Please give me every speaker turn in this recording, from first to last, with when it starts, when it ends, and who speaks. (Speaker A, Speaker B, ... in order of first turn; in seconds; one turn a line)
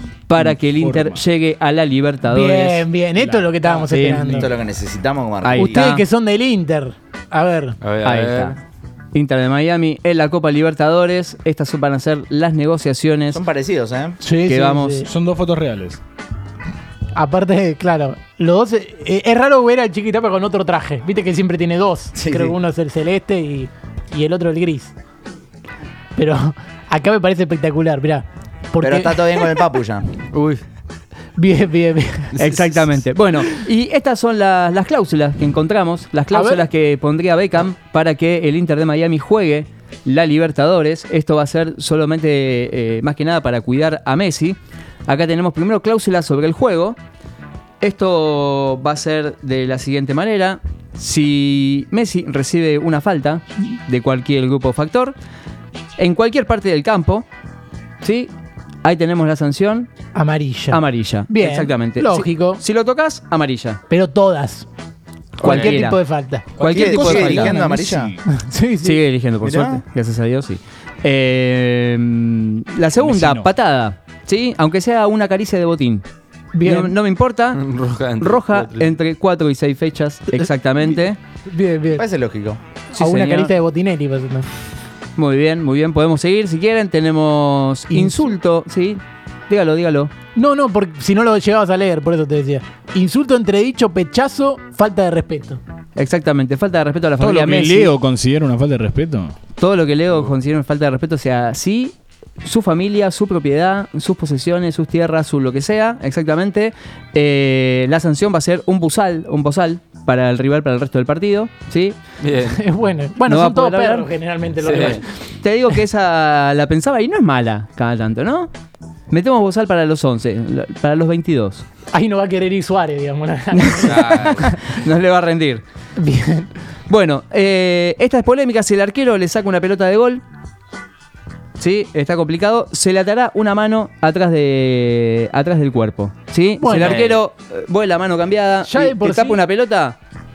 Speaker A: 0.3-2.9
Speaker B: 0.4-1.2
Speaker C: 2.3-4.5
Speaker B: 3.2-3.9
Speaker A: 3.9-4.4
Speaker D: 4.4-5.9
Speaker A: 5.4-6.0
Speaker C: 5.5-7.8
Speaker E: 7.8-8.6
Speaker A: 8.0-8.6
Speaker A: 9.1-13.4
Speaker D: 13.3-14.2
Speaker C: 14.2-15.1
Speaker A: 14.4-15.1
Speaker B: 15.0-16.0
Speaker C: 17.1-24.9
Speaker D: 22.1-22.6
Speaker C: 26.2-29.6
Speaker D: 28.8-30.1
Speaker E: 30.3-30.6
Speaker C: 31.4-32.4
Speaker A: 32.4-44.6
Speaker C: 36.3-36.7
Speaker A: 45.1-47.0
Speaker A: 47.8-55.1
Speaker A: 56.0-57.3
Speaker A: 58.0-58.3
Speaker A: 58.8-59.9
Speaker C: 60.1-62.6
Speaker A: 60.7-63.8
Speaker C: 63.9-64.7
Speaker C: 65.4-66.5
Speaker A: 65.4-66.0
Speaker D: 65.4-65.8
Speaker A: 66.6-67.7
Speaker B: 66.6-68.2
Speaker D: 66.6-68.2
Speaker C: 68.3-69.0
Speaker A: 68.8-76.0
Speaker D: 69.4-69.8
Speaker B: 73.0-73.5
Speaker C: 76.5-77.0
Speaker A: 76.6-77.6
Speaker E: 77.5-78.9
Speaker A: 78.2-81.2
Speaker C: 81.5-82.0
Speaker D: 81.9-82.6
Speaker A: 82.9-83.5
Speaker C: 83.0-84.5
Speaker A: 85.2-90.1
Speaker C: 87.9-88.3
Speaker C: 90.3-95.6
Speaker A: 96.0-97.9
Speaker B: 97.2-99.4
Speaker A: 99.6-112.0
Speaker E: 112.2-112.6
Speaker C: 112.5-115.1
Speaker A: 113.2-114.1
Speaker E: 114.6-115.0
Speaker A: 115.4-118.5
Speaker A: 119.1-121.7
Speaker C: 121.9-124.0
Speaker A: 123.5-125.6
Speaker E: 123.8-124.5
Speaker C: 126.0-126.5
Speaker A: 126.9-130.2
Speaker A: 131.6-140.0
Speaker C: 136.6-137.1
Speaker E: 136.8-137.2
Speaker C: 138.7-139.4